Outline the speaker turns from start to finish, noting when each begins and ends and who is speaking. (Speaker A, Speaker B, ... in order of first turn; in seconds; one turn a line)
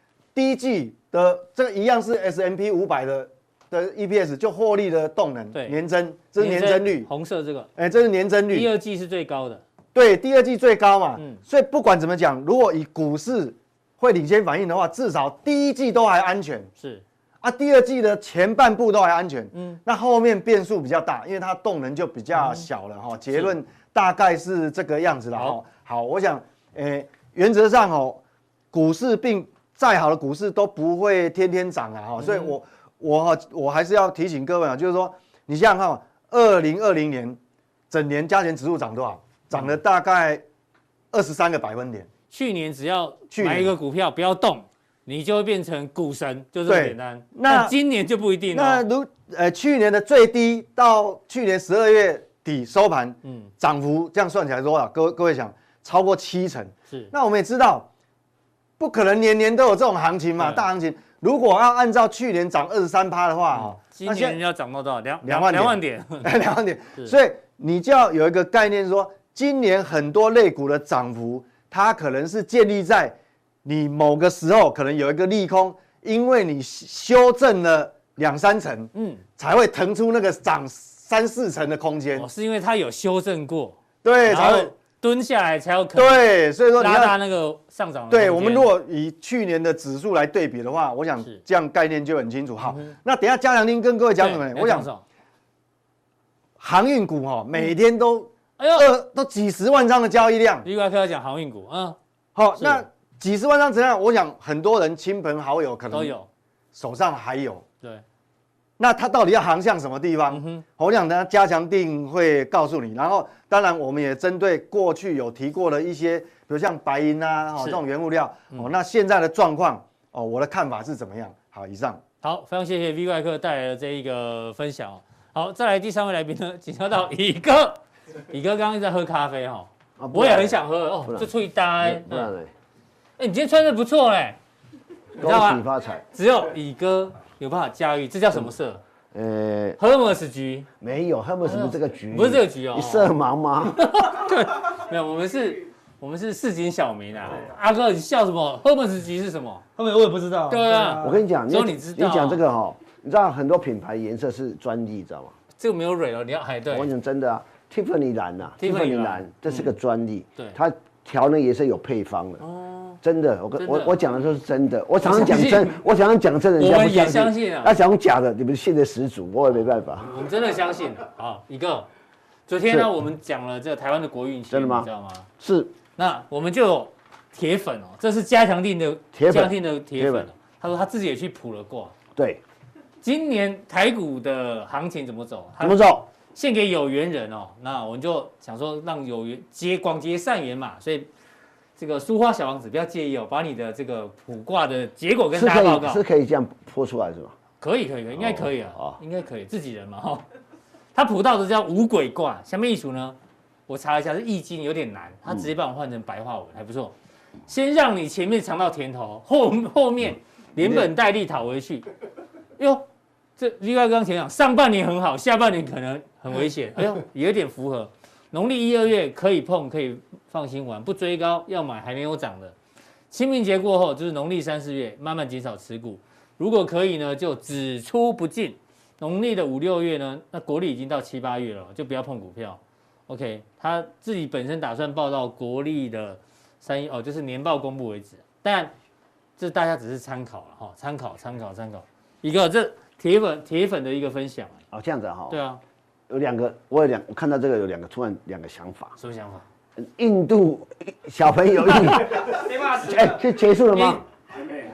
Speaker A: 0.3-7.1
Speaker B: 6.4-7.7
Speaker A: 7.8-8.7
Speaker B: 8.5-9.6
Speaker A: 9.9-16.7
Speaker B: 11.2-11.4
Speaker A: 17.4-28.2
Speaker B: 19.5-19.8
Speaker B: 22.3-22.7
Speaker A: 28.7-37.4
Speaker B: 32.2-32.5
Speaker A: 37.9-40.4
Speaker A: 41.1-42.1
Speaker B: 42.3-48.8
Speaker A: 43.3-43.7
Speaker A: 46.7-47.8
Speaker A: 48.5-57.9
Speaker B: 53.2-53.5
Speaker A: 58.8-64.4
Speaker B: 60.4-60.7
Speaker B: 63.5-66.3
Speaker A: 65.2-82.3
Speaker B: 79.0-79.2
Speaker B: 82.2-86.3
Speaker A: 84.0-84.7
Speaker A: 85.9-87.2
Speaker B: 86.8-88.7
Speaker A: 88.1-94.9
Speaker B: 92.6-93.0
Speaker B: 94.2-95.0
Speaker A: 96.6-100.7
Speaker B: 98.6-98.9
Speaker B: 100.6-102.0
Speaker A: 102.3-106.2
Speaker B: 102.6-102.8
Speaker B: 105.9-106.3
Speaker A: 106.7-107.7
Speaker A: 108.8-122.0
Speaker B: 110.3-110.6
Speaker B: 122.2-132.3
Speaker C: 130.0-131.3
Speaker C: 131.8-132.5
Speaker B: 133.2-134.4
Speaker B: 135.2-138.8
Speaker C: 135.2-136.0
Speaker C: 139.1-139.8
Speaker B: 139.8-140.7
Speaker C: 140.8-143.8
Speaker B: 141.4-143.1
Speaker B: 143.8-149.6
Speaker D: 149.8-151.2
Speaker B: 150.5-152.4
Speaker C: 151.0-155.3
Speaker B: 155.6-156.9
Speaker C: 156.7-162.4
Speaker B: 158.6-159.7
Speaker B: 162.4-163.0
Speaker C: 163.0-170.1
Speaker B: 163.6-164.0
Speaker B: 165.0-165.8
Speaker B: 166.6-167.8
Speaker B: 170.0-171.9
Speaker B: 172.5-175.3
Speaker C: 174.5-174.9
Speaker C: 175.4-175.7
Speaker B: 176.0-181.9
Speaker C: 179.1-180.3
Speaker C: 182.2-182.4
Speaker B: 183.0-191.1
Speaker C: 185.6-186.1
Speaker B: 191.8-196.0
Speaker C: 195.3-197.3
Speaker B: 197.6-200.2
Speaker C: 198.1-199.0
Speaker B: 200.9-203.2
Speaker B: 203.7-206.9
Speaker B: 207.5-211.8
Speaker C: 210.6-210.9
Speaker B: 212.6-212.9
Speaker B: 213.4-222.6
Speaker B: 223.1-238.7
Speaker B: 239.4-244.6
Speaker C: 244.7-245.4
Speaker B: 245.3-245.6
Speaker C: 246.1-248.9
Speaker B: 249.0-249.4
Speaker C: 249.8-254.0
Speaker D: 252.2-253.2
Speaker B: 253.7-254.0